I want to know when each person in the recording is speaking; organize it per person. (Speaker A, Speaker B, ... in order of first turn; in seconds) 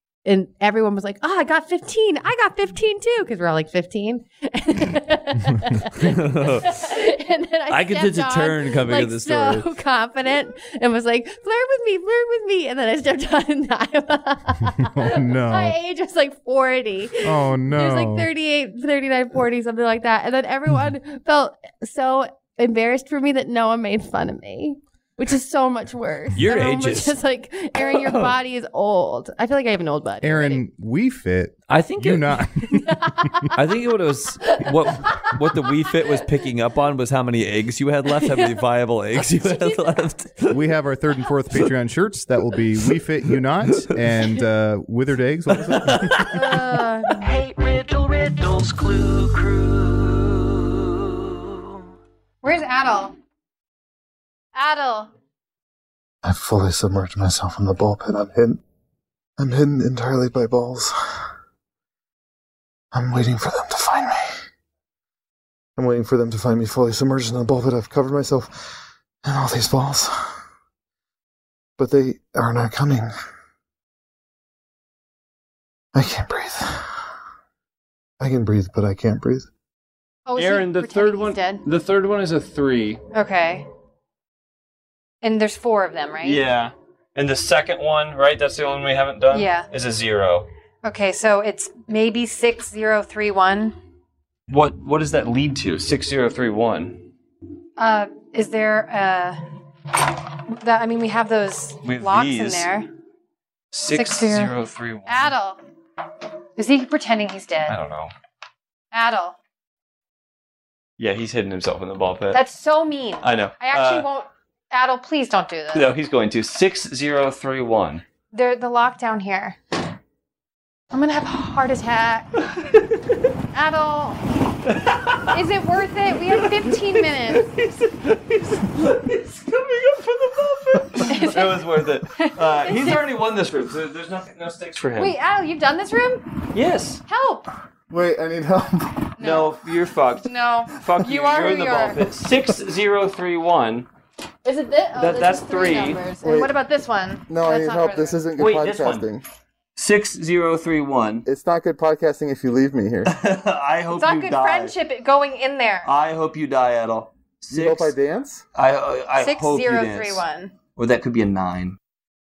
Speaker A: 0.2-30.6, 32.7-33.6, 34.4-36.0, 38.2-38.6, 39.1-40.0, 46.3-47.4, 52.4-53.1, 54.5-55.1, 80.2-81.6, 83.1-83.7, 85.2-86.4, 89.3-89.7, 90.8-93.8, 97.8-99.4, 100.5-102.9, 103.9-105.6, 106.6-107.8, 108.9-109.3, 112.3-115.9, 118.3-119.6, 120.9-122.5, 123.5-124.2, 125.2-127.5, 131.0-133.1, 135.0-136.3, 137.1-137.5, 139.2-139.5, 140.2-142.0, 144.4-148.2, 153.9-155.9, 159.1-160.5
Speaker B: 6.0-6.8, 7.7-9.7, 26.4-27.2, 27.8-28.3, 31.7-32.4, 33.5-40.6, 43.7-44.0, 45.5-46.5, 132.7-133.0, 153.2-154.3
Speaker C: 14.8-15.8, 17.2-18.3, 30.2-33.3, 40.5-46.3
Speaker D: 47.2-51.1
Speaker E: 56.2-58.6, 59.4-60.9, 62.9-64.2, 65.8-68.7, 69.2-70.3, 71.8-73.1, 75.9-76.8, 78.2-79.5, 137.9-139.3, 146.2-146.5, 147.3-149.2, 151.2-153.1, 157.5-158.4
Speaker F: 80.4-83.0, 86.2-90.5, 94.5-97.0, 101.8-102.6, 103.7-105.3, 107.7-108.1, 111.0-112.4, 113.2-114.1, 115.8-118.0, 129.6-135.1, 136.6-137.0, 139.3-140.2, 140.8-143.9, 145.0-146.0, 148.4-149.0, 149.8-151.2, 155.9-157.9, 158.6-160.2, 160.8-161.1